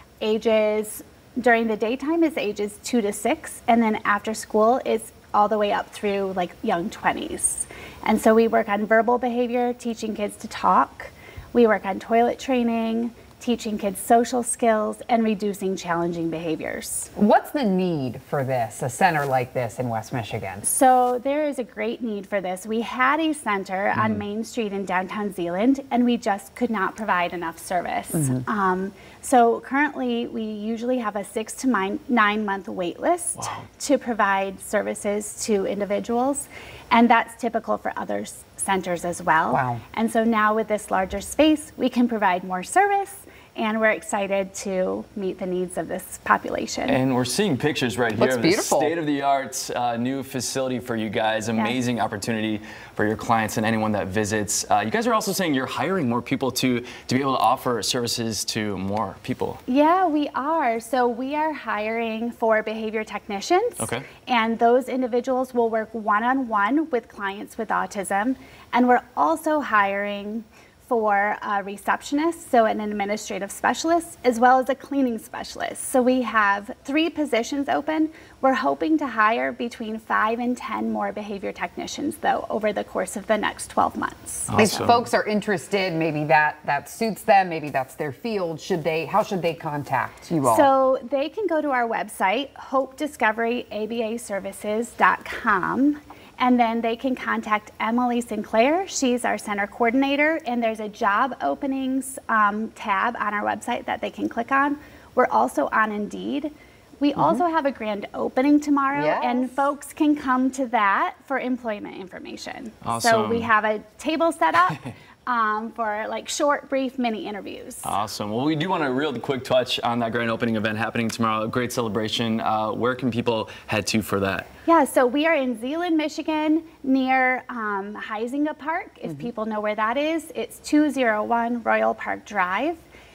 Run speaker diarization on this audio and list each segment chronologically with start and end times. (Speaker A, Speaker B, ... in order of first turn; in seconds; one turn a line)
Speaker A: 0.2-17.1
Speaker B: 17.2-20.6
Speaker A: 20.6-47.0
Speaker C: 23.9-24.2
Speaker B: 39.5-39.8
Speaker C: 46.9-59.6
Speaker B: 48.2-49.0
Speaker A: 59.7-84.9
Speaker C: 63.8-64.1
Speaker C: 84.5-85.0
Speaker B: 84.6-90.7
Speaker A: 90.4-118.0
Speaker B: 108.9-109.6
Speaker C: 112.8-113.5
Speaker C: 117.8-124.5
Speaker A: 124.7-132.8